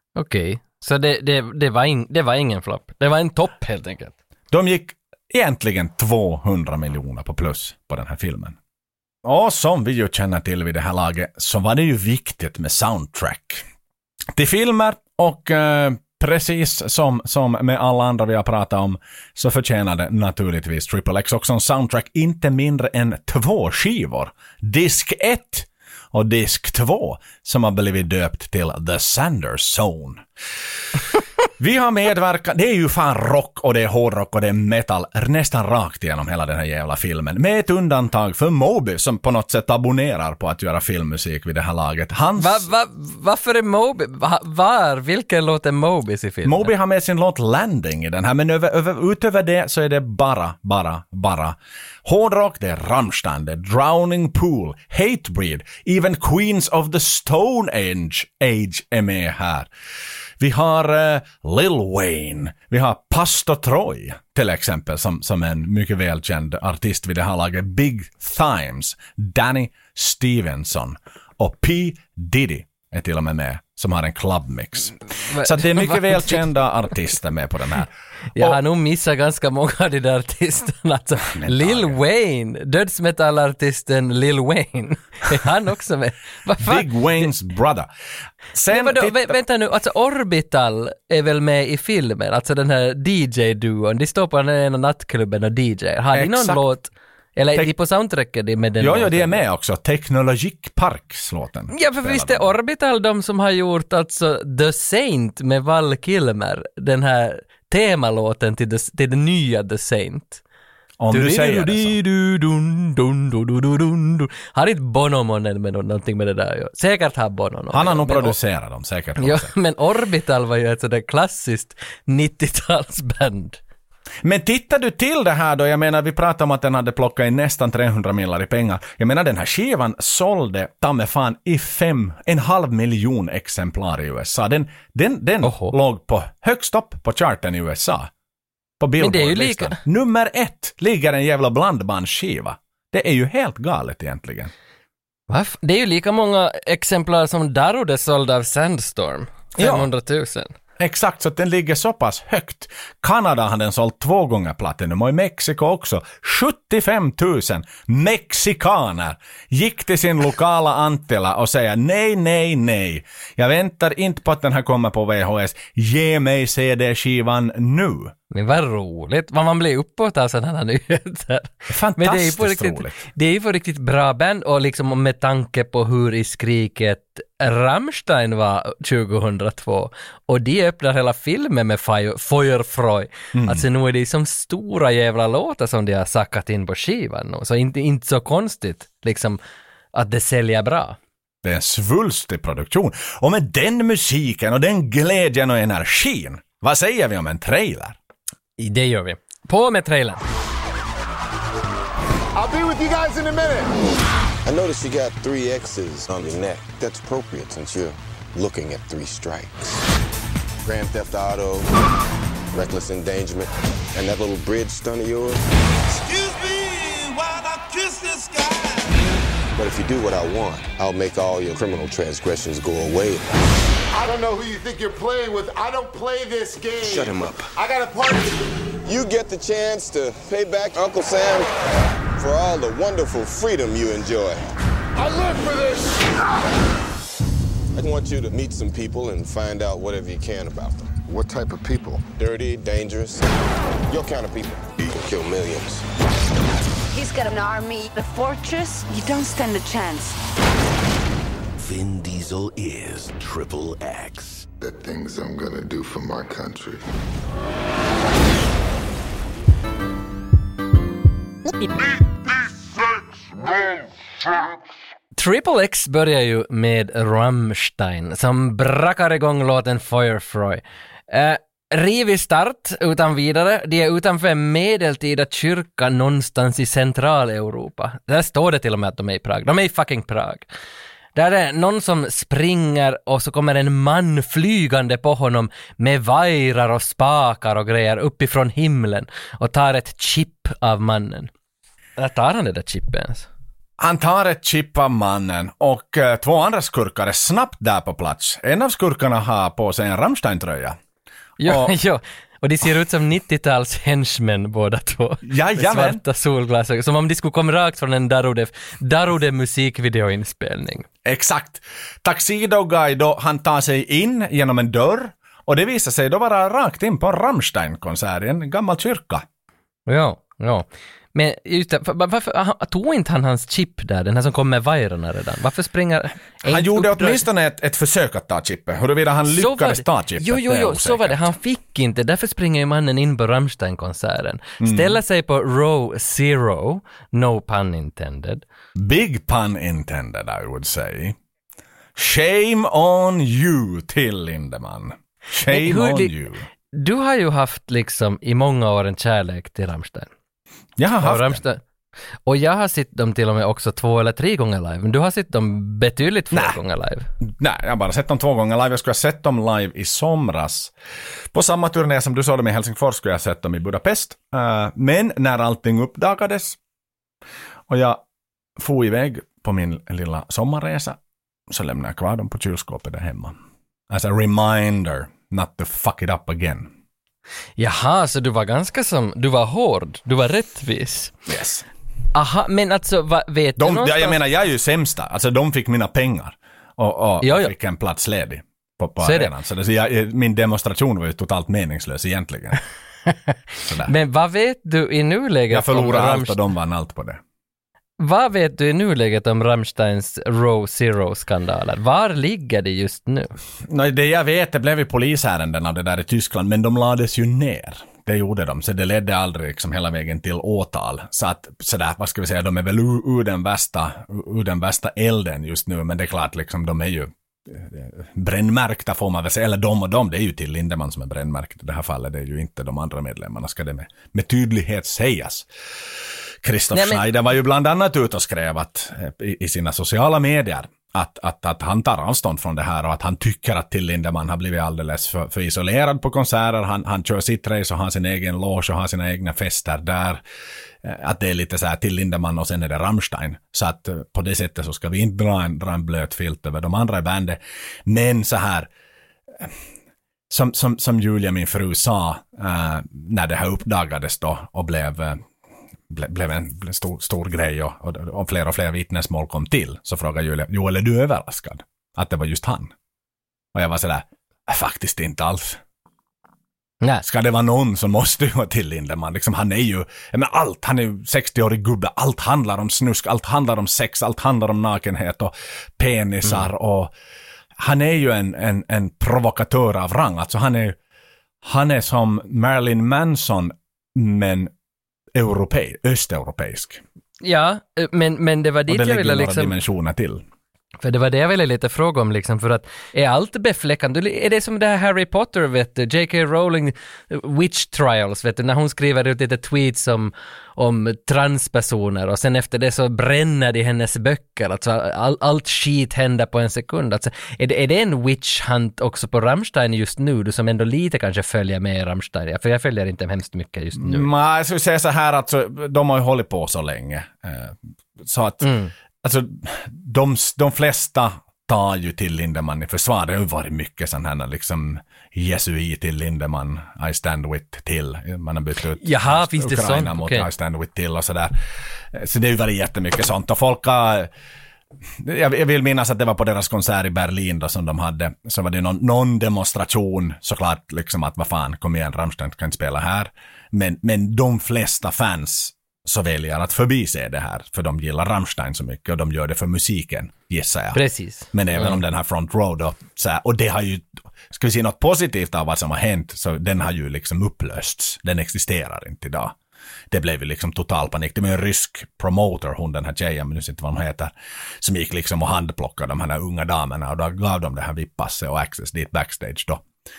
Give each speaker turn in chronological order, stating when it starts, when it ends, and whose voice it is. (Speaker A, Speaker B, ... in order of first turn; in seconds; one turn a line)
Speaker A: 0.2-4.1
Speaker B: 4.5-8.6
Speaker B: 9.2-13.7
Speaker B: 14.3-30.2
Speaker B: 31.6-42.6
Speaker A: 42.4-46.7
Speaker B: 46.4-59.7
Speaker B: 60.4-78.6
Speaker A: 75.2-76.4
Speaker A: 78.4-87.3
Speaker B: 81.2-82.0
Speaker B: 86.6-87.9
Speaker B: 88.5-89.3
Speaker A: 88.7-99.4
Speaker B: 96.1-96.6
Speaker B: 98.8-102.5
Speaker A: 101.7-110.4
Speaker B: 111.0-112.0
Speaker A: 111.1-118.4
Speaker B: 117.7-119.5
Speaker A: 119.2-123.6
Speaker B: 124.2-138.1
Speaker A: 135.4-135.7
Speaker B: 138.8-144.5
Speaker A: 139.0-139.8
Speaker A: 145.3-150.5
Speaker B: 149.6-149.9
Speaker B: 150.8-168.1
Speaker A: 168.3-189.4
Speaker B: 171.7-173.0
Speaker B: 183.3-183.7
Speaker A: 189.9-191.0
Speaker B: 191.4-198.0
Speaker A: 198.6-200.2
Speaker C: 202.3-203.7
Speaker D: 204.4-209.8
Speaker D: 210.6-211.7
Speaker D: 212.5-215.4
Speaker C: 215.9-218.8
Speaker D: 219.6-223.2
Speaker C: 223.9-228.4
Speaker D: 226.8-227.5
Speaker D: 228.8-231.5
Speaker D: 232.1-234.4
Speaker C: 235.0-236.1
Speaker D: 237.7-241.0
Speaker C: 241.1-242.0
Speaker D: 242.2-243.2
Speaker D: 243.9-245.8
Speaker E: 246.9-250.2
Speaker F: 251.6-254.5
Speaker C: 254.6-256.8
Speaker A: 265.2-280.5
Speaker A: 281.1-291.3
Speaker A: 292.0-293.3
Speaker B: 293.8-300.8
Speaker A: 301.4-310.9
Speaker B: 301.4-301.8
Speaker B: 305.2-306.0
Speaker B: 311.1-319.2
Speaker A: 319.9-327.2
Speaker B: 326.4-331.3
Speaker A: 329.3-338.4
Speaker B: 334.6-335.0
Speaker B: 338.8-341.1
Speaker B: 342.0-346.5
Speaker A: 345.5-346.1
Speaker A: 346.7-350.1
Speaker B: 350.8-351.4
Speaker A: 351.0-351.6
Speaker A: 352.2-357.1
Speaker B: 356.3-356.6
Speaker B: 357.3-360.7
Speaker B: 361.3-366.6
Speaker B: 367.7-368.0
Speaker B: 368.6-371.0
Speaker B: 371.5-373.4
Speaker B: 373.9-376.7
Speaker A: 377.6-381.1
Speaker B: 381.3-381.6
Speaker A: 382.1-384.2
Speaker B: 383.6-392.6
Speaker A: 387.2-387.5
Speaker A: 389.0-389.3
Speaker A: 393.1-396.4
Speaker B: 393.6-393.9
Speaker B: 395.5-397.2
Speaker A: 398.0-403.3
Speaker B: 403.6-425.5
Speaker B: 426.4-440.2
Speaker A: 426.7-427.0
Speaker B: 440.8-448.7
Speaker B: 450.3-455.2
Speaker B: 455.9-462.7
Speaker B: 463.5-465.6
Speaker B: 467.0-476.9
Speaker B: 477.6-480.8
Speaker B: 481.4-484.5
Speaker B: 485.1-486.8
Speaker A: 487.2-489.5
Speaker B: 488.7-490.2
Speaker A: 490.8-514.1
Speaker B: 513.8-518.5
Speaker A: 518.4-518.7
Speaker B: 519.0-531.3
Speaker A: 528.8-530.3
Speaker B: 531.9-534.1
Speaker B: 535.0-550.8
Speaker A: 550.7-551.8
Speaker B: 551.3-559.4
Speaker B: 559.9-569.6